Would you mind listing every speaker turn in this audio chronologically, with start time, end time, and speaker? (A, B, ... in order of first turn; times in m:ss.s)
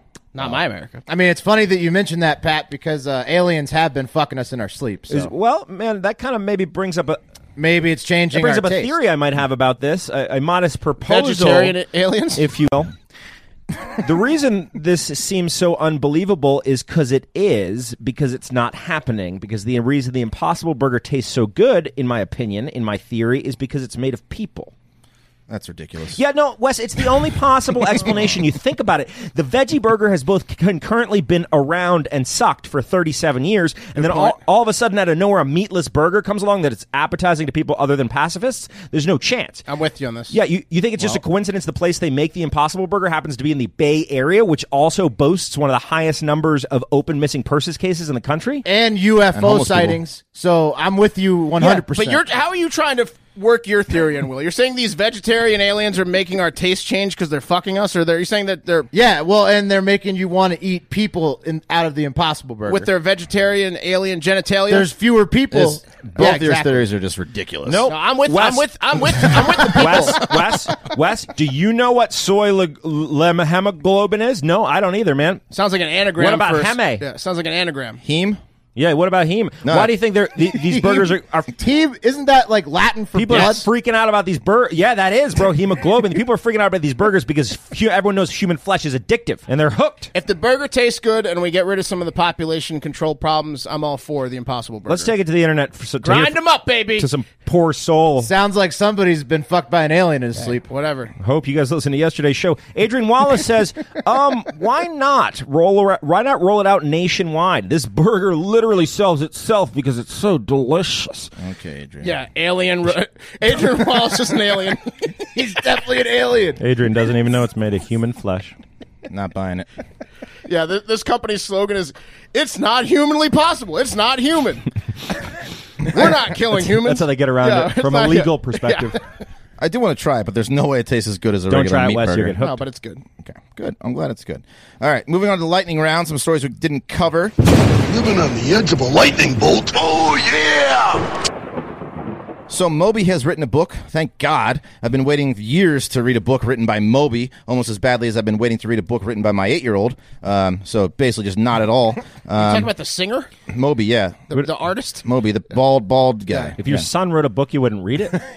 0:00.3-0:01.0 A
0:01.1-0:05.3 B
0:05.1-0:07.2 C
0:07.6-0:09.0 B
0:08.3-0:11.8 C
0:11.0-0:12.5 A
0:12.4-0:12.9 C
0:14.0-0:24.7 C
0:25.5-0:26.2 D
0:26.2-0:39.6 C
0:34.0-0:34.4 A
0:39.7-0:40.4 A
0:40.3-0:48.6 C
0:48.6-0:52.2 B
0:49.3-0:50.0 D
0:51.6-0:58.9 A
0:58.9-1:02.9 B
1:02.7-1:04.9 A
1:04.7-1:06.8 B
1:05.5-1:07.8 D
1:07.7-1:15.4 C
1:07.9-1:10.3 A
1:15.5-1:18.0 A
1:16.2-1:17.0 C
1:18.0-1:18.4 D
1:18.8-1:21.5 C
1:19.6-1:20.0 D
1:20.5-1:23.7 B
1:23.2-1:30.1 C
1:30.1-1:35.1 A
1:34.9-1:36.4 C
1:36.0-1:37.1 A
1:37.0-1:38.3 C
1:38.2-1:40.6 B
1:40.4-1:41.1 A
1:41.2-1:51.3 C
1:51.4-1:52.1 D
1:52.0-1:55.2 A
1:55.3-1:56.6 B
1:56.6-1:58.6 C
1:59.1-1:59.7 D
2:00.5-2:04.7 A
2:05.8-2:09.0 A
2:06.5-2:09.0 C
2:09.6-2:12.4 D
2:11.5-2:12.6 C
2:12.4-2:13.0 A
2:13.2-2:17.3 D
2:17.8-2:21.1 E
2:22.5-2:32.7 D
2:32.3-2:33.3 A
2:33.5-2:34.4 D
2:34.3-2:35.1 A
2:35.0-2:36.9 D
2:36.6-2:38.2 C